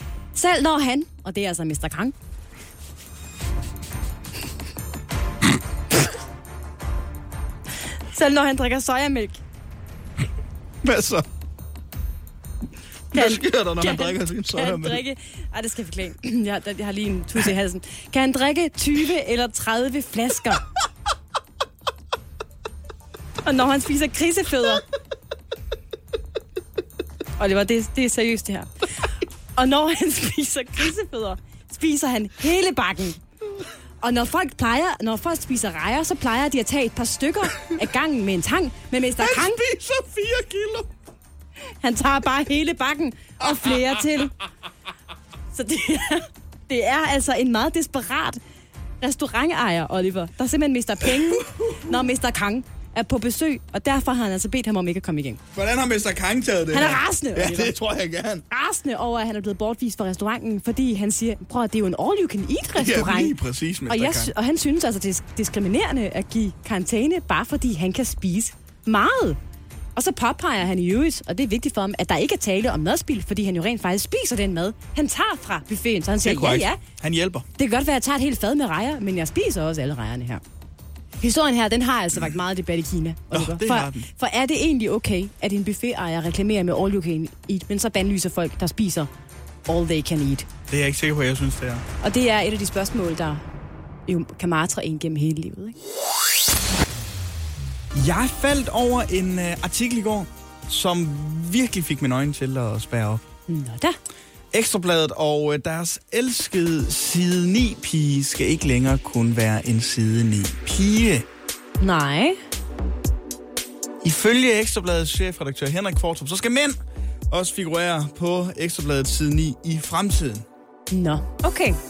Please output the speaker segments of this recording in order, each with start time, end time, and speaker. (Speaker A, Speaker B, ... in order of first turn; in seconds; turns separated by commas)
Speaker A: 0.3-2.1, Speaker A: 8.1-9.4, Speaker B: 10.8-11.3, Speaker B: 13.1-15.0, Speaker A: 13.1-20.6, Speaker A: 23.4-24.8, Speaker A: 27.4-28.7, Speaker A: 29.6-33.2, Speaker A: 34.0-39.6, Speaker B: 39.2-40.9, Speaker A: 41.8-44.3, Speaker A: 45.5-48.4, Speaker A: 49.0-55.4, Speaker B: 51.2-52.0, Speaker B: 55.5-58.5, Speaker A: 56.7-57.8, Speaker A: 58.5-63.3, Speaker B: 62.8-64.3, Speaker A: 63.9-69.4, Speaker A: 70.0-76.8, Speaker B: 76.2-77.5, Speaker A: 77.6-80.4, Speaker A: 81.2-89.1, Speaker B: 83.3-84.1, Speaker A: 89.7-90.5, Speaker B: 90.7-91.8, Speaker A: 92.0-93.4, Speaker A: 94.1-95.8, Speaker B: 98.0-103.2, Speaker A: 103.5-104.0, Speaker B: 104.5-111.3, Speaker A: 111.8-112.4, Speaker B: 114.0-116.8, Speaker B: 117.3-120.5, Speaker A: 120.9-121.8